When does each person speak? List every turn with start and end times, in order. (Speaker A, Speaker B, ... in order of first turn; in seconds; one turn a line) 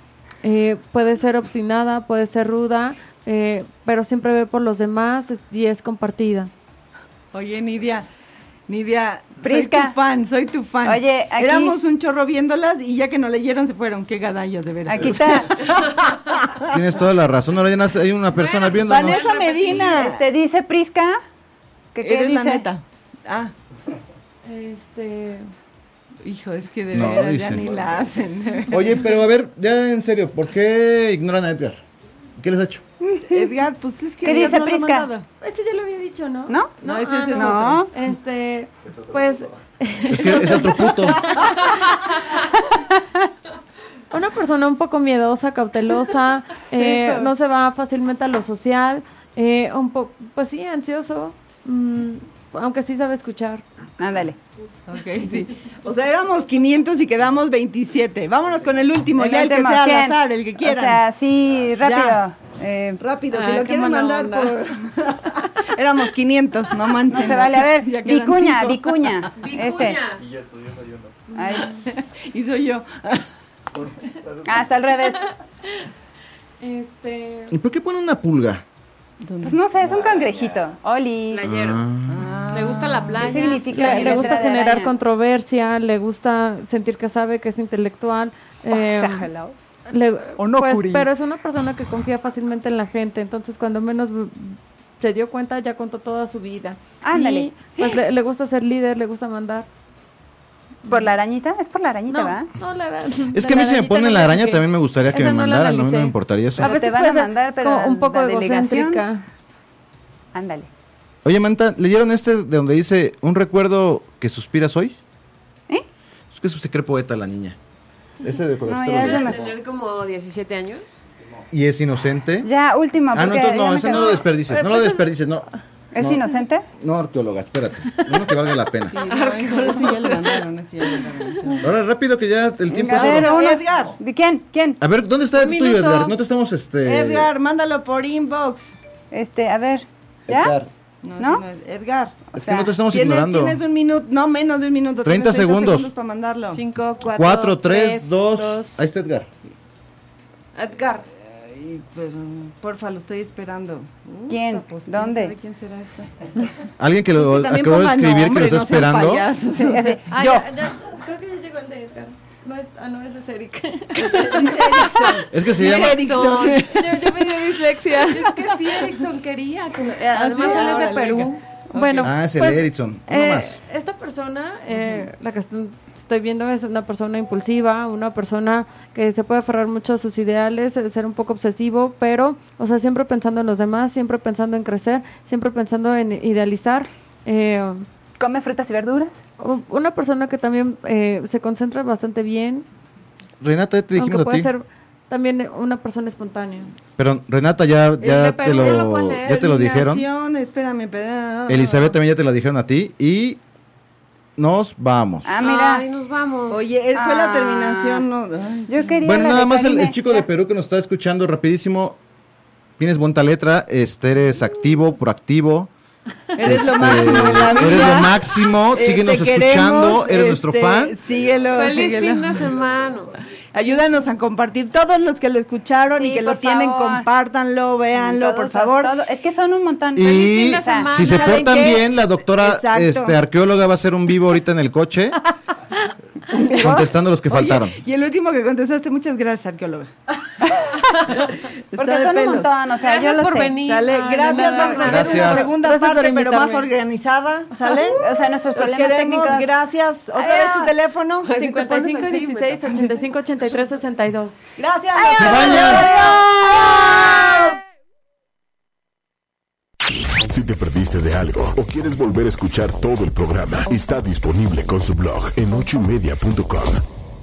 Speaker A: 0.4-6.5
Speaker B: 7.3-8.1
Speaker B: 8.7-16.6
Speaker C: 9.4-9.9
Speaker C: 10.8-11.8
Speaker C: 14.9-15.5
Speaker D: 16.6-19.3
Speaker E: 18.3-20.1
Speaker B: 18.8-20.3
Speaker C: 19.7-21.2
Speaker C: 21.9-22.6
Speaker B: 22.0-23.5
Speaker A: 24.4-25.5
Speaker B: 26.2-29.0
Speaker D: 26.9-27.7
Speaker F: 27.4-28.3
Speaker D: 28.7-31.8
Speaker D: 32.4-32.8
Speaker C: 33.0-33.5
Speaker B: 33.3-35.2
Speaker C: 34.2-35.1
Speaker A: 35.4-41.7
Speaker B: 36.8-37.9
Speaker C: 37.3-37.9
Speaker F: 38.9-39.6
Speaker D: 40.1-41.3
Speaker C: 42.7-43.0
Speaker A: 44.1-53.6
Speaker C: 46.7-47.3
Speaker C: 54.0-54.4
Speaker B: 54.9-61.0
Speaker C: 59.1-63.0
Speaker B: 61.8-62.2
Speaker B: 63.0-69.3
Speaker A: 63.3-64.5
Speaker C: 67.1-70.0
Speaker E: 69.4-70.2
Speaker F: 70.1-71.2
Speaker A: 71.3-71.8
Speaker C: 71.3-71.8
Speaker B: 71.8-73.3
Speaker F: 73.7-74.8
Speaker C: 74.4-75.3
Speaker A: 76.6-77.5
Speaker D: 77.5-78.6
Speaker B: 79.2-79.6
Speaker C: 79.4-81.5
Speaker F: 79.8-80.7
Speaker E: 81.3-81.8
Speaker D: 81.5-82.3
Speaker B: 82.1-84.3
Speaker E: 82.5-84.2
Speaker C: 83.2-84.9
Speaker A: 83.7-89.3
Speaker C: 88.7-89.5
Speaker A: 89.9-99.7
Speaker B: 90.4-91.0
Speaker C: 97.0-98.0
Speaker C: 100.9-102.5
Speaker A: 102.1-109.2
Speaker D: 103.3-106.7
Speaker C: 106.6-109.0
Speaker C: 110.3-110.7
Speaker D: 111.2-115.0
Speaker D: 116.3-117.5
Speaker D: 118.2-119.4
Speaker C: 118.6-119.4
Speaker E: 118.9-121.0
Speaker F: 119.2-119.5
Speaker D: 121.5-122.5
Speaker C: 122.4-124.3
Speaker D: 123.1-126.2
Speaker A: 123.9-125.2
Speaker C: 125.9-126.7
Speaker D: 126.8-129.1
Speaker A: 127.9-128.3
Speaker B: 128.9-131.7
Speaker E: 129.1-130.4
Speaker D: 131.6-133.3
Speaker C: 132.7-134.8
Speaker B: 132.8-133.9
Speaker D: 134.8-137.3
Speaker E: 135.3-136.2
Speaker B: 136.8-138.8
Speaker C: 139.1-140.5
Speaker D: 140.3-140.7
Speaker B: 141.0-142.2
Speaker C: 141.2-141.4
Speaker C: 142.3-142.8
Speaker D: 142.3-143.6
Speaker B: 142.9-146.6
Speaker D: 145.0-145.9
Speaker E: 146.5-148.8
Speaker D: 147.0-149.3
Speaker E: 150.5-151.1
Speaker B: 151.1-156.5
Speaker C: 154.3-155.3
Speaker D: 156.8-159.3
Speaker B: 157.1-160.5
Speaker C: 159.6-160.0
Speaker A: 160.1-165.2
Speaker B: 163.9-168.9
Speaker D: 165.3-166.0
Speaker E: 165.6-166.7
Speaker A: 166.6-168.4
Speaker E: 168.0-172.1
Speaker B: 170.1-171.3
Speaker A: 171.7-187.8
Speaker D: 172.0-173.6
Speaker B: 174.7-175.0
Speaker C: 188.2-189.2
Speaker A: 189.4-192.6
Speaker D: 193.4-194.5
Speaker A: 193.9-196.7
Speaker D: 197.0-200.1
Speaker E: 198.0-199.5
Speaker B: 198.5-201.9
Speaker D: 201.5-203.4
Speaker D: 204.4-205.3
Speaker C: 205.2-205.8
Speaker E: 205.4-206.7
Speaker B: 206.5-209.1
Speaker C: 206.9-208.1
Speaker C: 208.7-210.2
Speaker D: 209.0-212.0
Speaker D: 212.8-215.7
Speaker B: 216.3-222.5
Speaker D: 216.4-221.0
Speaker F: 221.1-223.2
Speaker E: 221.5-223.1
Speaker B: 223.5-228.9
Speaker C: 225.9-227.1
Speaker C: 227.9-231.0
Speaker D: 229.9-235.2
Speaker E: 230.0-231.8
Speaker B: 231.0-233.2
Speaker C: 236.3-236.9
Speaker D: 236.5-237.8
Speaker B: 237.3-239.9
Speaker B: 241.1-242.6
Speaker C: 241.8-243.7
Speaker E: 242.8-245.4
Speaker B: 243.6-252.9
Speaker A: 243.9-246.7
Speaker D: 244.8-245.5
Speaker C: 247.9-249.5
Speaker C: 250.1-250.7
Speaker E: 251.3-252.3
Speaker A: 251.3-254.4
Speaker B: 254.6-257.5
Speaker C: 254.9-257.1
Speaker D: 255.1-255.9
Speaker G: 260.2-266.8